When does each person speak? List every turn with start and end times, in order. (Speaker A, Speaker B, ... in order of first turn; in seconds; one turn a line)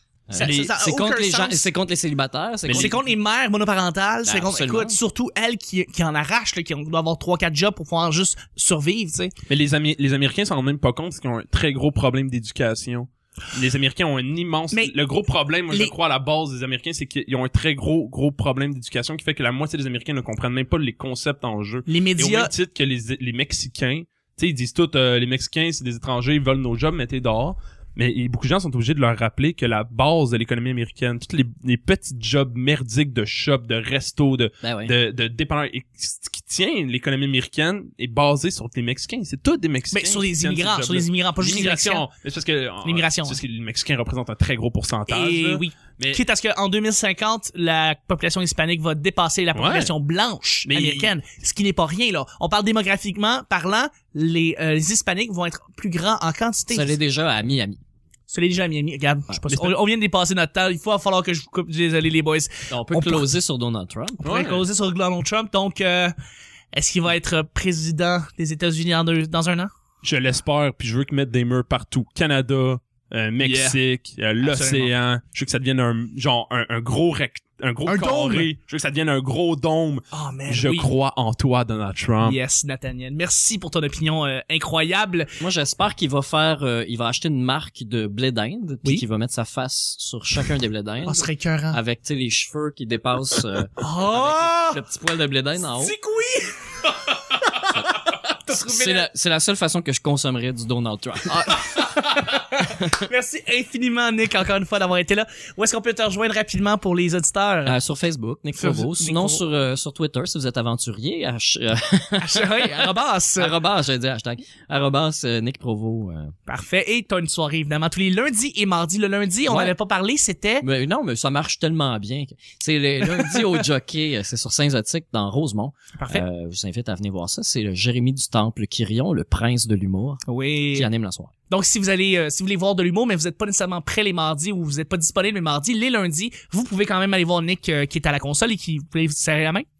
Speaker A: 0.3-3.0
Speaker B: 0.3-1.7
Speaker C: 0.4-0.7
Speaker C: 2.7-3.0
Speaker B: 2.7-9.3
Speaker A: 4.3-5.0
Speaker C: 9.5-46.2
Speaker B: 21.9-22.5
Speaker A: 34.6-34.9
Speaker B: 39.9-42.0
Speaker B: 42.8-43.4
Speaker B: 45.1-56.9
Speaker C: 49.5-49.9
Speaker C: 50.7-51.1
Speaker A: 56.7-57.8
Speaker B: 58.3-63.3
Speaker A: 59.3-59.7
Speaker A: 62.7-64.2
Speaker B: 64.2-66.1
Speaker C: 64.2-64.7
Speaker B: 66.7-69.7
Speaker C: 70.0-82.4
Speaker B: 73.4-73.8
Speaker B: 74.4-74.9
Speaker B: 77.9-78.5
Speaker B: 80.1-80.9
Speaker B: 82.2-85.3
Speaker A: 85.4-95.9
Speaker B: 91.0-91.8
Speaker B: 93.8-94.8
Speaker B: 95.7-96.6
Speaker B: 97.5-99.1
Speaker A: 98.5-101.8
Speaker B: 101.3-107.8
Speaker A: 102.6-103.1
Speaker A: 107.7-116.3
Speaker B: 108.6-109.4
Speaker B: 112.2-113.5
Speaker B: 116.5-120.7
Speaker A: 119.5-119.8
Speaker A: 120.6-130.2
Speaker B: 123.1-123.5
Speaker B: 126.0-126.2
Speaker B: 130.3-130.9
Speaker A: 130.7-131.3
Speaker B: 131.5-139.7